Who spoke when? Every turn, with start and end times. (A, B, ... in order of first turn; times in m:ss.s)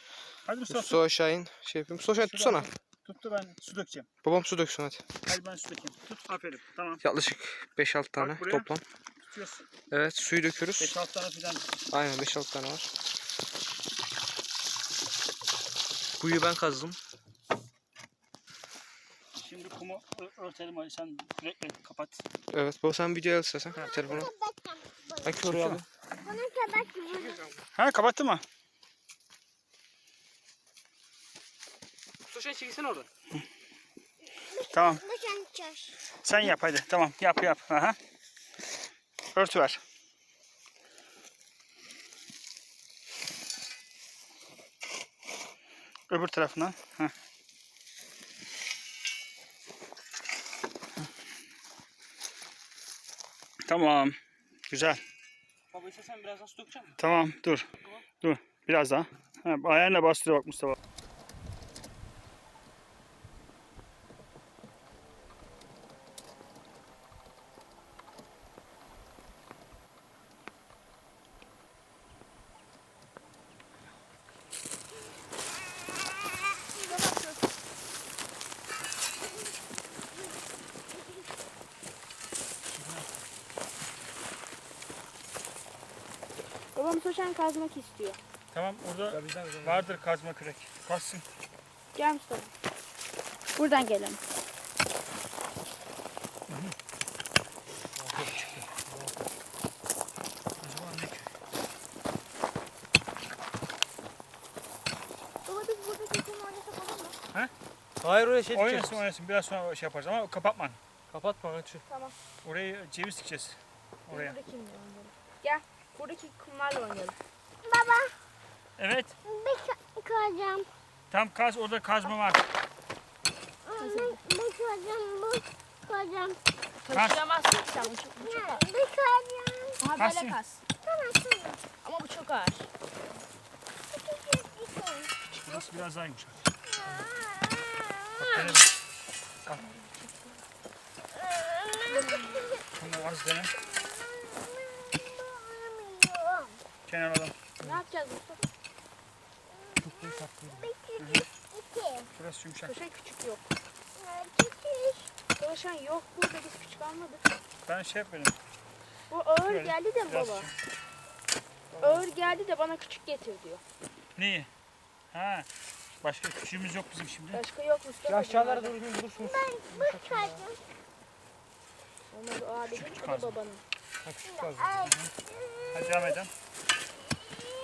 0:00.4-0:01.1 A
0:00.7-0:02.7 B
0:02.2-0:04.1 A
0:04.2-0:05.1 B
0:05.2-0:07.0 A
0:07.0-0:08.8 B
0:08.2-0:08.7 A
0:09.3-0:09.7 A
0:09.9-0:11.0 B
0:10.8-0:11.7 A
0:11.9-0:12.9 B
0:16.2-0:17.0 B
0:19.4-0:22.2 A
0:22.5-0:24.3 B
0:23.7-0:24.3 A
0:24.2-0:24.6 C
0:25.2-0:25.8 B
0:25.4-0:25.8 A
0:26.2-0:27.3 C
0:27.1-0:27.5 B
0:27.7-0:28.4 A
0:32.3-0:33.1 B
0:34.7-0:35.1 A
0:35.1-0:35.9 C
0:36.2-0:38.0 A
0:39.3-0:39.8 A
0:46.1-0:47.1 A
0:53.7-0:54.2 A
0:54.7-0:55.0 A
0:55.7-0:56.9 B
0:57.0-0:57.7 A
0:58.2-1:00.8 A
1:16.9-1:17.4 D
1:26.7-1:28.2 D
1:28.5-1:31.3 A
1:29.1-1:30.0 B
1:32.0-1:32.5 D
1:33.6-1:34.2 D
1:36.5-1:36.8 A
1:38.0-1:39.2 B
1:40.6-1:41.3 A
1:45.5-1:47.1 D
1:48.0-1:49.0 B
1:48.5-1:50.8 A
1:51.1-1:51.8 B
1:51.9-1:52.2 D
1:52.4-1:54.4 A
1:54.1-1:57.2 D
1:57.6-1:58.1 C
1:58.8-1:59.1 A
1:59.3-2:00.7 C
2:01.1-2:02.5 A
2:03.8-2:04.2 D
2:04.0-2:06.4 C
2:06.8-2:08.6 D
2:06.9-2:07.2 A
2:08.3-2:09.8 C
2:09.8-2:10.6 D
2:10.0-2:10.4 A
2:10.8-2:11.6 C
2:11.8-2:12.7 D
2:13.9-2:15.1 C
2:15.3-2:16.4 A
2:17.2-2:18.0 C
2:18.2-2:18.7 A
2:19.5-2:20.4 D
2:21.9-2:22.5 D
2:22.8-2:23.6 A
2:24.0-2:26.6 C
2:26.9-2:27.4 A
2:27.6-2:28.5 D
2:29.8-2:30.7 B
2:30.6-2:31.0 C
2:31.0-2:31.3 A
2:31.5-2:32.0 C
2:32.2-2:32.7 A
2:32.6-2:33.4 D
2:34.0-2:35.1 C
2:35.4-2:37.4 D
2:37.7-2:38.4 A
2:39.1-2:40.5 D
2:39.5-2:40.5 A
2:41.7-2:42.0 B
2:41.8-2:43.6 D
2:44.2-2:44.5 A
2:45.1-2:45.5 A
2:46.0-2:47.4 A
2:47.3-2:48.8 D
2:48.1-2:50.5 B
2:49.4-2:50.6 C
2:52.1-2:53.6 D
2:52.7-2:53.4 A
2:54.0-2:55.1 B
2:54.3-2:54.9 C
2:55.7-2:56.3 A